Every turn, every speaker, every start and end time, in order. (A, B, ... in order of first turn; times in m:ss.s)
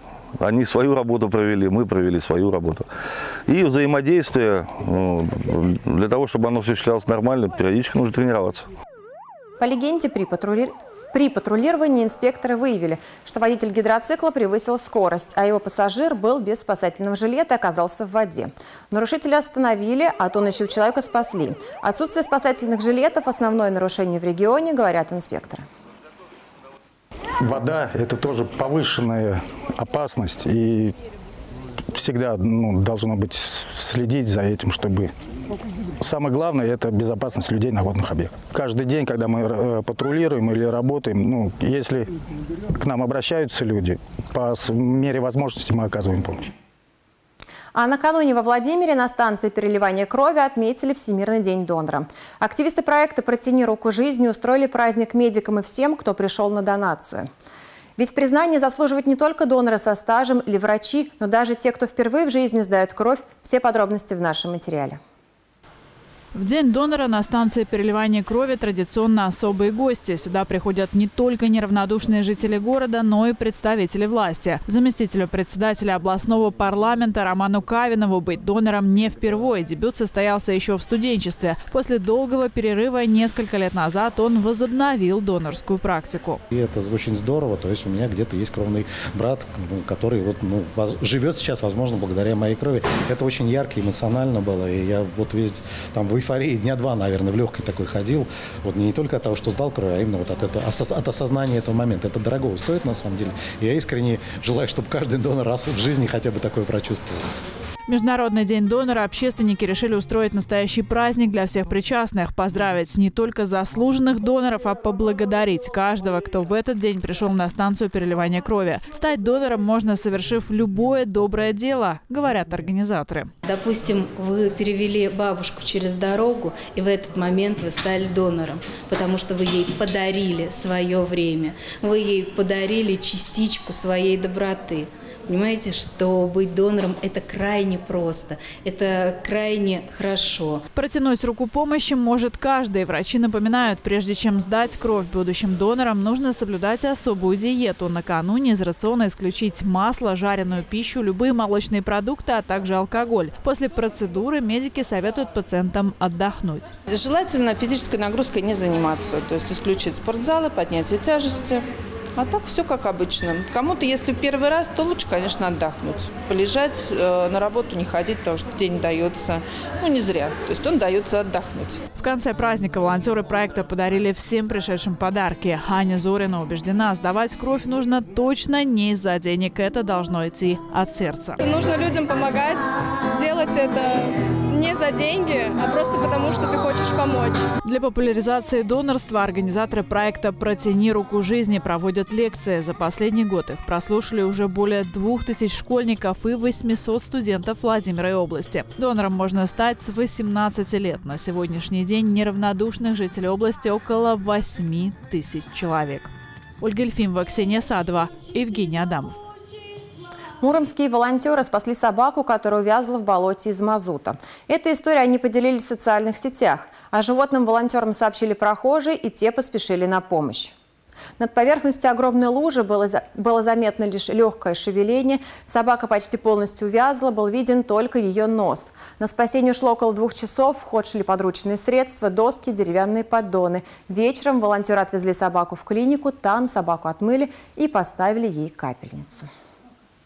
0:00.4-0:02.9 A
0:03.5-0:08.7 A
0:09.6-0:25.7 B
0:27.4-0:30.9 C
0:32.0-0:35.1 C
0:36.0-0:42.1 C
0:42.8-0:46.4 C
0:47.7-0:57.3 B
0:58.0-1:05.0 B
1:06.3-1:26.4 D
1:26.5-1:47.3 E
1:47.9-2:03.3 D
2:03.5-2:20.6 F
2:20.7-2:36.7 D
2:36.9-2:51.8 G
2:52.0-3:01.4 D
3:01.4-3:07.5 H
3:07.6-3:29.2 D
3:30.4-3:40.5 B
3:41.2-3:59.3 B